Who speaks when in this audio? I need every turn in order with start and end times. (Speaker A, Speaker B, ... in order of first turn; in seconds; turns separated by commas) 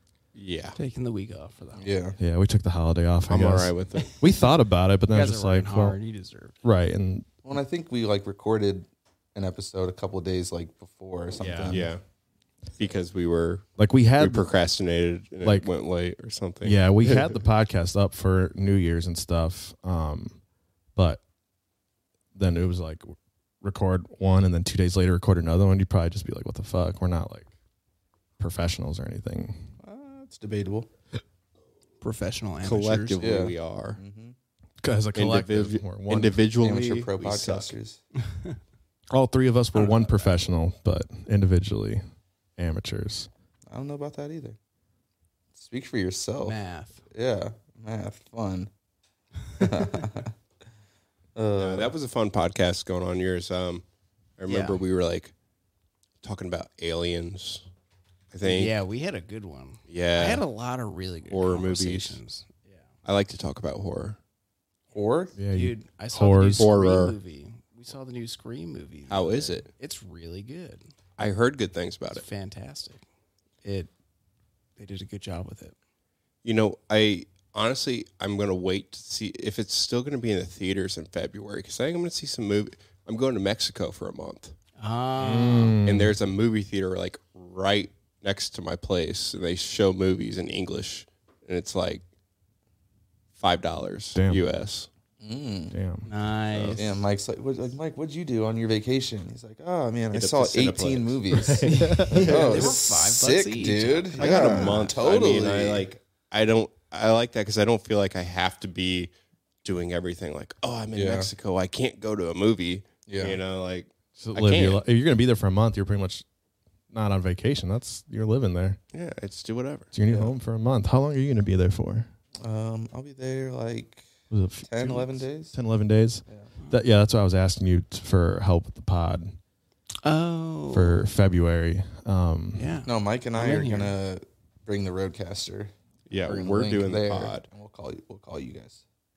Speaker A: 0.3-0.8, Speaker B: 0.8-1.9, Speaker C: 1.8-2.2, Speaker D: 2.2-6.0, Speaker A: 3.3-4.2, Speaker B: 5.1-6.5, Speaker D: 6.6-7.3, Speaker C: 7.5-11.9, Speaker D: 11.4-11.9, Speaker A: 11.7-12.0, Speaker A: 12.8-13.7, Speaker D: 13.8-14.4, Speaker A: 14.2-17.4, Speaker D: 15.4-15.7, Speaker D: 16.6-20.4, Speaker D: 21.0-21.2, Speaker D: 22.4-27.5, Speaker D: 28.4-29.7, Speaker C: 29.8-30.9, Speaker B: 32.0-33.4, Speaker A: 32.6-34.0, Speaker C: 33.2-34.4, Speaker D: 34.8-36.4, Speaker A: 35.2-37.7, Speaker C: 36.6-38.0, Speaker D: 39.1-42.0, Speaker B: 39.7-40.3, Speaker D: 42.6-43.3, Speaker C: 43.7-44.6, Speaker C: 45.6-46.6, Speaker B: 46.4-47.0, Speaker C: 47.1-48.7, Speaker C: 49.6-50.3, Speaker C: 51.4-51.9, Speaker A: 51.6-53.8, Speaker A: 54.4-55.3, Speaker B: 54.5-54.8, Speaker A: 56.2-57.6, Speaker A: 58.3-58.7, Speaker B: 58.4-62.8, Speaker A: 59.9-60.4, Speaker A: 61.3-62.2, Speaker A: 63.0-64.2, Speaker C: 64.9-65.4, Speaker D: 65.4-66.7, Speaker B: 65.5-70.9, Speaker A: 66.6-67.2, Speaker A: 69.1-69.7, Speaker A: 71.2-72.2, Speaker B: 72.1-73.0, Speaker B: 73.6-73.9, Speaker B: 74.8-75.8, Speaker A: 76.4-84.5, Speaker B: 84.8-85.8, Speaker D: 85.2-86.2, Speaker A: 85.8-92.0, Speaker A: 93.4-94.9, Speaker D: 94.2-94.4, Speaker C: 95.2-95.8, Speaker D: 95.7-96.1, Speaker B: 96.0-97.0, Speaker C: 96.8-105.9, Speaker A: 100.1-101.5, Speaker D: 101.3-102.7, Speaker B: 101.7-105.0, Speaker A: 102.2-102.7, Speaker A: 104.2-109.1, Speaker A: 109.6-114.8, Speaker C: 111.0-111.3, Speaker C: 113.1-113.4, Speaker D: 114.2-116.2, Speaker D: 116.9-118.8, Speaker A: 118.9-119.9, Speaker D: 119.9-122.1, Speaker C: 120.1-120.3, Speaker C: 122.4-124.1, Speaker D: 124.3-129.4, Speaker C: 124.7-125.5, Speaker B: 130.0-131.0, Speaker D: 130.7-132.7, Speaker B: 132.6-133.9, Speaker C: 132.9-135.7, Speaker A: 136.1-137.5, Speaker C: 136.2-138.8